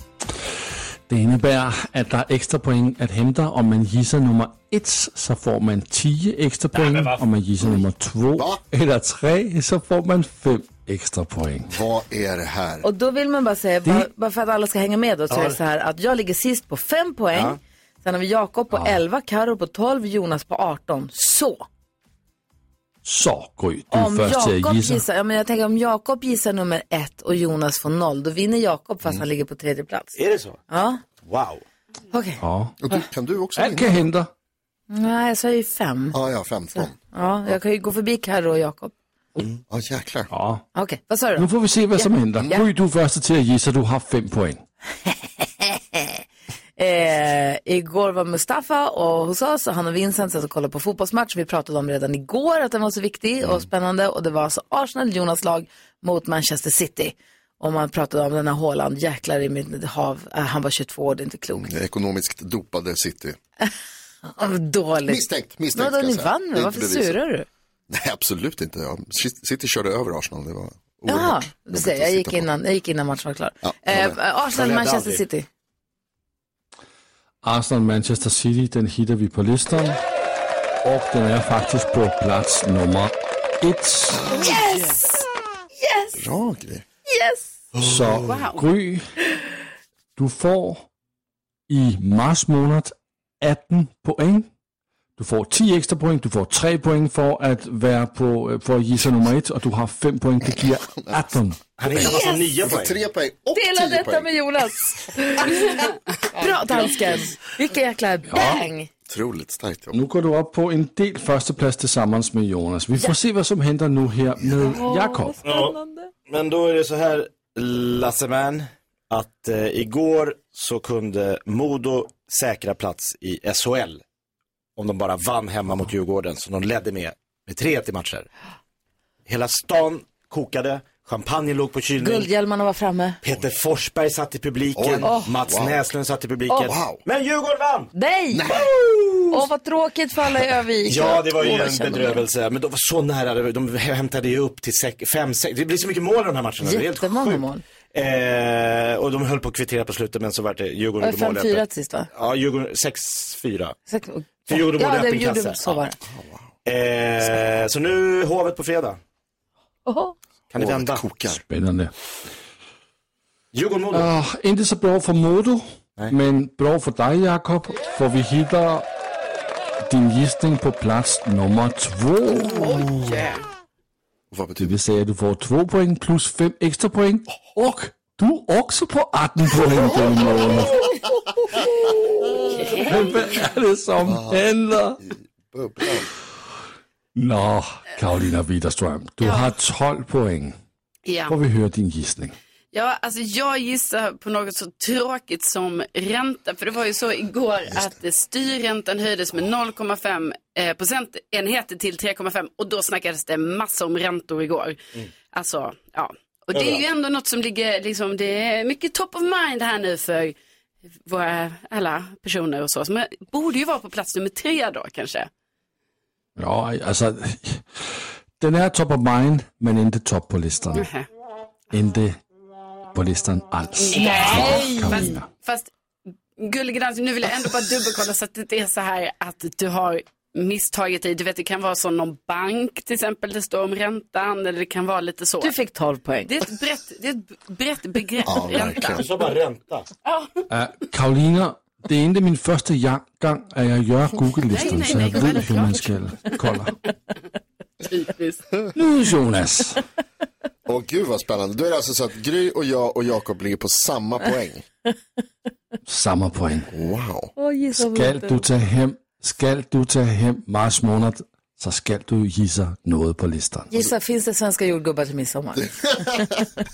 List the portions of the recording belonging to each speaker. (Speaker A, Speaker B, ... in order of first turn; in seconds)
Speaker A: 1.1-11.7, 23.0-25.0, 32.4-32.7, 33.5-34.3, 40.3-40.6, 41.4-44.6, 77.4-80.0, 80.8-84.3, 87.8-89.0, 90.2-90.9, 91.7-94.5, 95.2-102.3, 109.9-115.4, 161.5-161.9, 163.9-168.9, 169.8-172.6, 174.6-181.0, 182.7-185.0, 187.2-190.6, 191.3-192.3, 216.4-220.9, 221.7-222.2, 222.9-225.3, 240.5-246.7, 248.7-249.8, 255.9-256.7, 257.7-263.7
Speaker B: 6.7-7.2, 15.3-15.6, 30.2-30.6, 31.2-31.6, 74.5-75.2, 101.8-103.0, 115.4-124.0, 124.8-128.3, 129.2-132.3, 133.2-137.9, 138.6-139.3, 140.9-153.7, 154.5-155.8, 156.6-159.0, 160.5-161.2, 163.5-164.1, 206.5-206.8, 238.8-239.9
Speaker C: 11.7-12.8, 32.8-34.0, 36.1-37.5, 39.7-40.3, 61.5-63.4, 65.0-67.2, 67.9-72.5, 73.6-74.2, 86.1-86.8, 101.0-101.2, 102.0-104.3, 109.1-110.0, 134.7-135.8, 136.6-137.0, 138.3-138.7, 156.1-156.5, 160.5-161.4, 174.3-174.8, 184.0-186.1, 238.2-239.0, 250.6-254.6, 256.7-257.3, 265.6-266.4
Speaker D: 12.8-21.6, 23.9-30.2, 30.7-31.0, 32.1-33.0, 34.9-36.2, 36.7-38.9, 40.7-42.6, 45.4-46.2, 46.8-61.7, 64.2-67.5, 71.0-75.5, 84.3-85.2, 85.8-86.2, 87.1-87.5, 102.0-102.4, 103.5-108.9, 132.0-133.2, 135.0-135.3, 137.9-138.5, 139.3-142.2, 146.6-147.6, 151.0-152.1, 153.9-156.0, 159.8-160.1, 224.2-225.2, 235.4-236.3, 257.4-258.4, 263.7-266.2
Speaker E: 84.5-85.0, 88.2-88.7, 172.4-173.4, 182.5-183.3, 189.2-189.5, 191.1-191.3, 192.7-204.8, 205.3-210.3, 211.0-215.3, 220.7-221.1, 223.8-225.7, 226.4-235.6, 236.2-239.1, 240.1-240.4, 244.4-246.4, 247.8-248.4